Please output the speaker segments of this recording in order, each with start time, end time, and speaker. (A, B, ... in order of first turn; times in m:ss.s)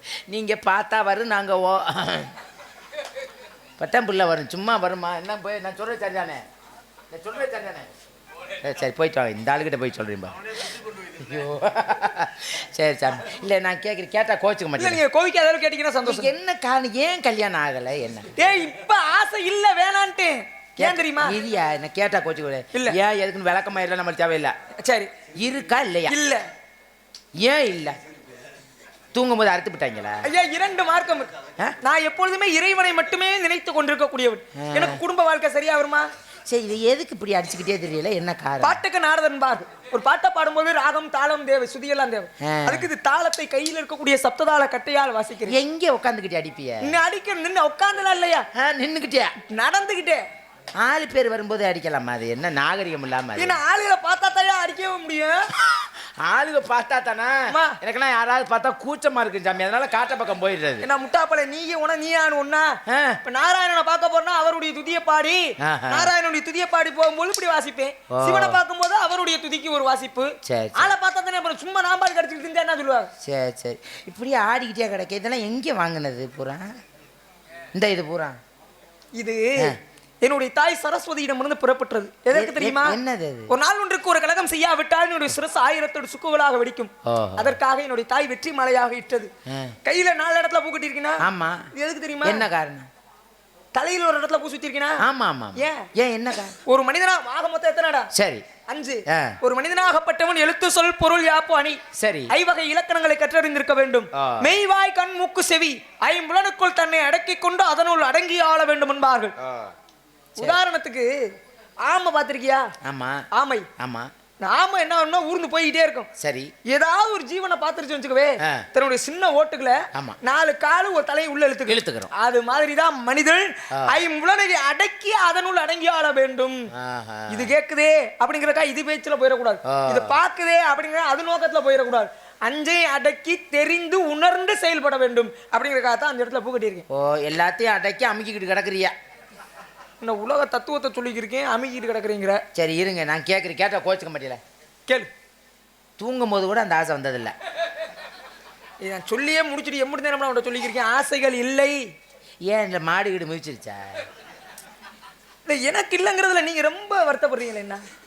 0:00.3-0:02.3 A
0:03.8-0:06.4 A
0:07.1-0:07.9 A
0:08.6-0:15.0 A
0:14.8-0:16.3 B
0:16.0-0:18.3 A
0:18.4-0:21.4 B
0:20.8-0:24.5 A
0:24.8-0:25.1 B
0:25.4-0:26.2 A
0:26.1-0:26.5 B
0:27.4-0:28.0 A
0:29.1-0:30.3 A
0:30.2-0:31.3 B
0:31.8-0:36.1 B
0:34.6-0:35.0 A
0:36.5-0:38.8 A
0:38.6-0:45.6 B
0:42.4-0:42.9 A
0:45.5-0:47.0 A
0:46.8-0:48.5 B
0:48.6-0:49.3 A
0:49.5-0:50.2 B
0:50.8-0:53.6 A
0:53.4-0:55.5 B
0:55.6-1:00.9 A
0:57.5-0:57.8 B
1:00.8-1:13.1 B
1:02.9-1:03.2 A
1:05.6-1:06.1 A
1:08.1-1:08.6 A
1:10.4-1:10.9 A
1:13.2-1:16.7 A
1:17.8-1:18.4 A
1:19.2-1:23.0 B
1:22.3-1:23.5 A
1:23.5-1:29.3 B
1:27.1-1:27.6 A
1:29.5-1:29.8 A
1:29.8-1:31.2 B
1:31.2-1:31.7 A
1:31.7-1:32.4 B
1:32.2-1:32.9 A
1:33.8-1:35.0 B
1:35.0-1:36.6 A
1:35.6-1:35.9 B
1:36.6-1:38.1 B
1:38.1-1:38.4 A
1:38.7-1:49.3 B
1:39.1-1:39.4 A
1:42.0-1:42.3 A
1:44.1-1:44.5 A
1:49.4-1:49.7 A
1:50.4-1:51.2 B
1:51.8-1:52.7 B
1:52.8-1:53.2 A
1:53.3-1:53.7 B
1:53.8-1:54.1 A
1:54.4-1:56.1 B
1:56.2-1:56.5 A
1:56.6-2:06.7 B
2:01.7-2:02.1 A
2:03.7-2:04.0 A
2:06.8-2:07.5 A
2:07.3-2:16.8 B
2:09.6-2:10.2 A
2:16.9-2:18.9 A
2:20.0-2:22.4 B
2:22.6-2:24.4 A
2:26.0-2:27.3 A
2:28.8-2:31.8 B
2:32.5-2:34.0 A
2:35.5-2:37.8 B